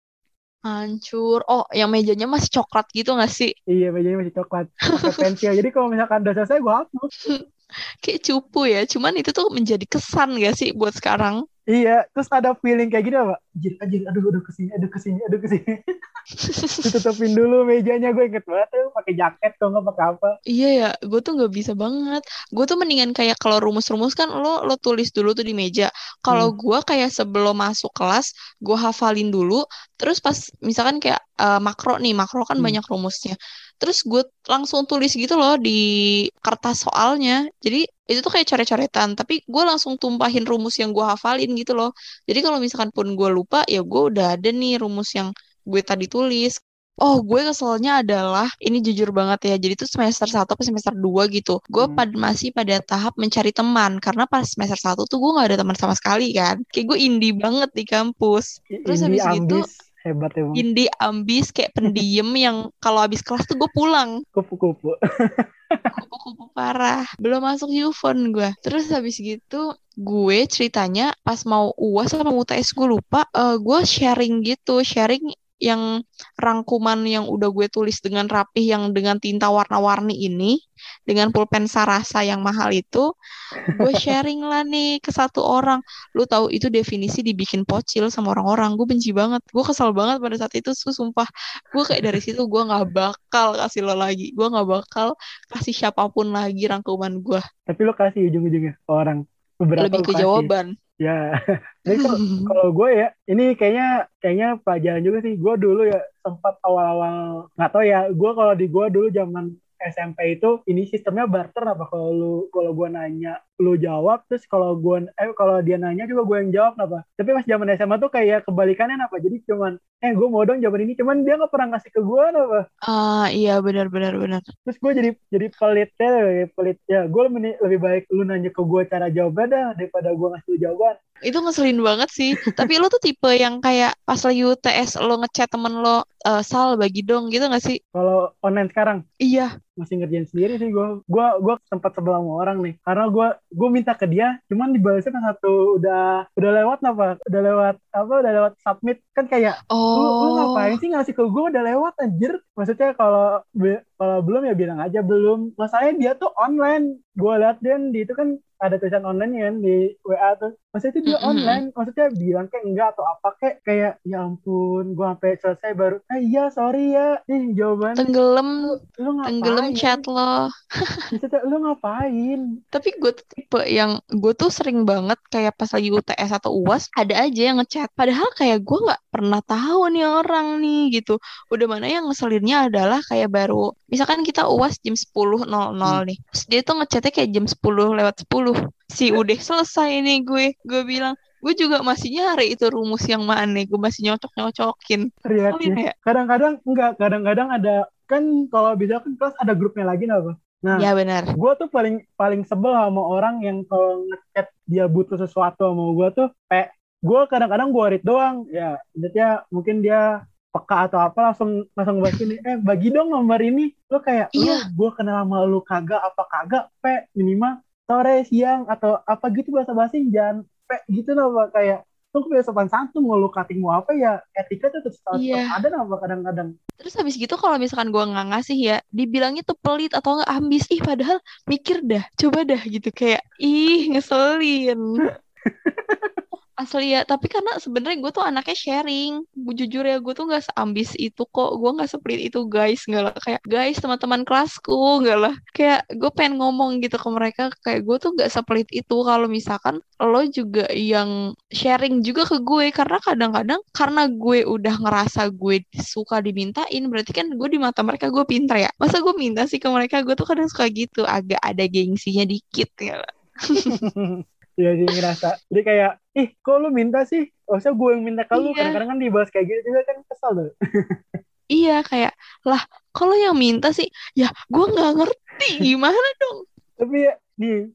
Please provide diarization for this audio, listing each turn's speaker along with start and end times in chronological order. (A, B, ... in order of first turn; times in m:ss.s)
0:00.7-0:03.5 A
0:03.7-0:07.1 B
0:08.0-0:11.4 A
0:11.7-0:15.7 B
0:16.4-0:16.8 A
0:16.8-0:20.3 B
0:20.5-0:35.8 A
0:36.5-0:59.6 A
0:58.8-1:00.6 B
1:00.6-1:04.1 A
1:04.4-1:05.0 B
1:06.0-1:15.8 A
1:16.4-1:20.5 A
1:21.1-1:23.0 A
1:23.7-1:37.4 A
1:37.7-1:41.2 B
1:39.8-1:40.7 A
1:41.9-2:02.6 B
1:41.9-1:42.6 A
2:02.9-2:04.4 A
2:04.7-2:11.0 B
2:11.2-2:17.8 A
2:18.0-2:19.0 B
2:19.2-2:19.5 A
2:19.8-2:48.1 B
2:29.7-2:30.7 A
2:41.1-2:41.6 A
2:48.0-2:48.7 A
2:48.7-2:50.0 B
2:49.3-2:50.3 A
2:51.1-2:52.4 B
2:52.7-3:15.9 A
3:15.3-3:20.9 B
3:20.7-3:21.3 A
3:21.4-3:46.5 B
3:34.3-3:34.6 A
3:45.1-3:45.6 A
3:46.8-3:54.8 A
3:55.7-3:56.2 B
3:56.6-4:11.1 A
4:11.6-4:23.0 A
4:23.7-4:30.5 B
4:28.4-4:28.8 A
4:31.5-4:36.4 A
4:36.8-4:37.6 B